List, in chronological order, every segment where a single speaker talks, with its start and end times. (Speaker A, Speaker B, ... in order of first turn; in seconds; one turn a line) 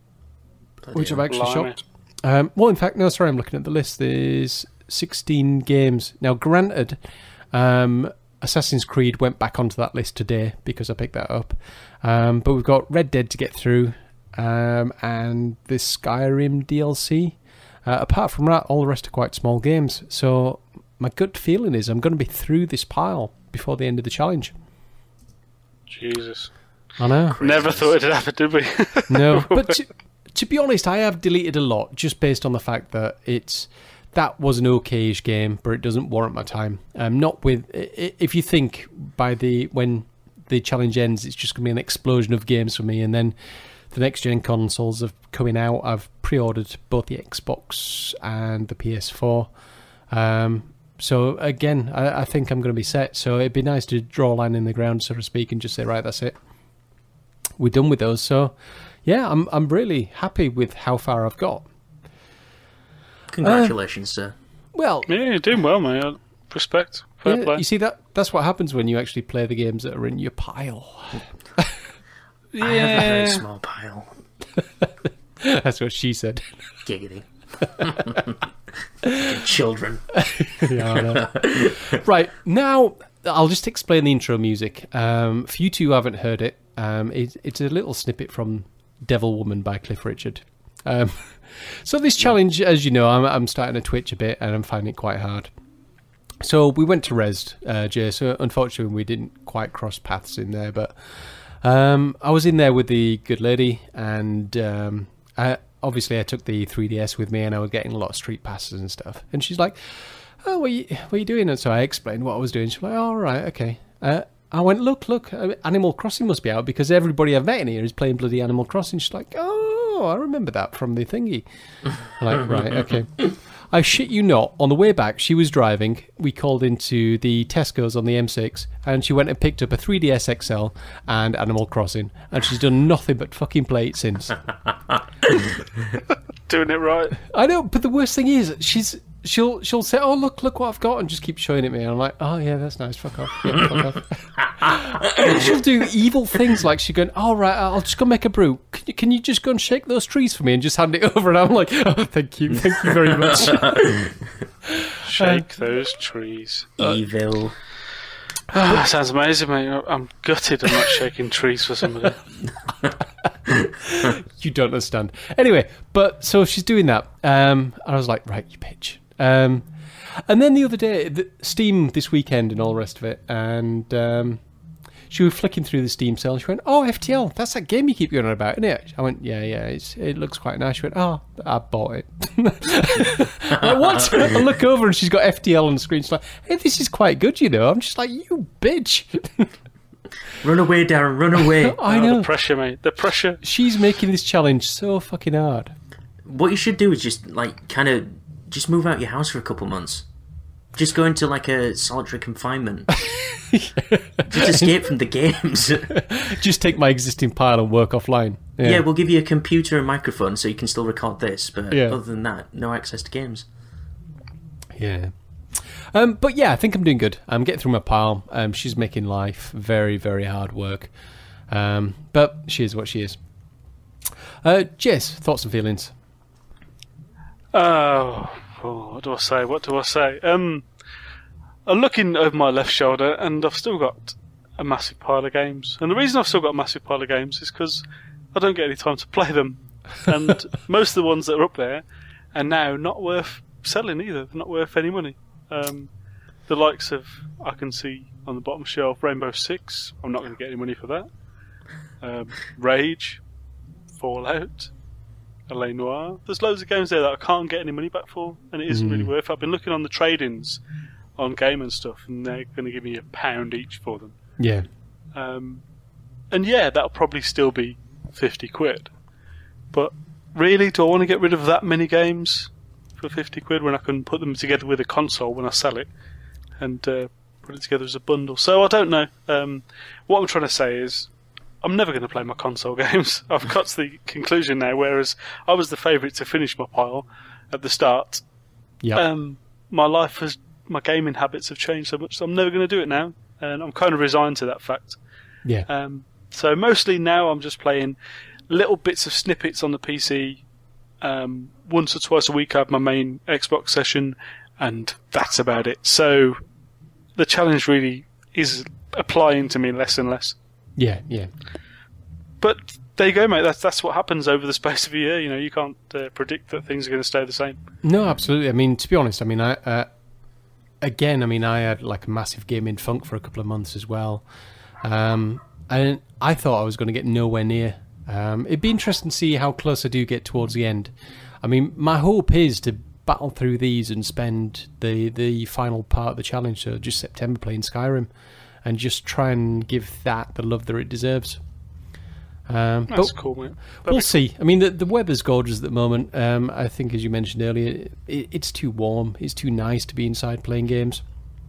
Speaker A: 0.8-1.2
Speaker B: 0.9-7.0
Speaker C: 1.3-1.8
Speaker B: 7.5-24.5
Speaker C: 25.9-26.5
Speaker B: 27.0-27.4
Speaker A: 27.3-27.9
Speaker C: 27.4-29.7
Speaker B: 29.1-43.3
Speaker B: 43.9-49.5
Speaker B: 50.1-56.3
Speaker B: 57.6-61.6
Speaker A: 63.3-64.3
Speaker B: 63.4-63.7
Speaker B: 64.7-65.1
Speaker C: 65.1-67.6
Speaker B: 67.2-71.8
Speaker C: 72.5-73.4
Speaker A: 72.6-74.2
Speaker B: 74.8-76.5
Speaker A: 76.8-78.3
Speaker A: 79.0-82.0
Speaker B: 80.2-95.5
Speaker B: 96.4-121.4
Speaker B: 122.0-134.4
Speaker C: 136.5-137.2
Speaker B: 137.2-154.0
Speaker A: 153.2-154.1
Speaker B: 154.6-155.4
Speaker C: 155.0-156.7
Speaker A: 156.8-157.6
Speaker C: 158.5-162.2
Speaker B: 163.8-174.4
Speaker B: 175.1-189.5
Speaker A: 190.4-191.8
Speaker B: 191.6-192.3
Speaker C: 191.8-193.4
Speaker B: 193.4-195.7
Speaker A: 196.2-200.0
Speaker A: 200.7-203.0
Speaker B: 203.0-204.7
Speaker A: 204.3-206.0
Speaker B: 205.9-208.8
Speaker A: 208.6-213.4
Speaker B: 211.7-212.0
Speaker B: 214.7-220.9
Speaker B: 221.5-223.2
Speaker B: 224.4-225.9
Speaker C: 227.5-230.7
Speaker C: 231.7-245.9
Speaker C: 246.4-251.1
Speaker C: 252.0-253.2
Speaker C: 253.9-254.7
Speaker C: 255.5-260.6
Speaker B: 258.7-259.1
Speaker C: 261.2-264.1
Speaker B: 264.4-264.6
Speaker C: 265.1-265.6
Speaker C: 266.3-268.9
Speaker C: 269.7-275.9
Speaker C: 276.6-288.2
Speaker C: 288.9-295.0
Speaker C: 295.7-298.0
Speaker C: 298.5-300.4
Speaker C: 301.0-306.4
Speaker C: 307.1-310.4
Speaker B: 310.8-311.3
Speaker C: 312.4-317.6
Speaker B: 317.8-319.9
Speaker B: 320.8-324.2
Speaker B: 324.8-338.1
Speaker B: 338.6-341.4
Speaker B: 342.5-351.0
Speaker C: 342.9-344.1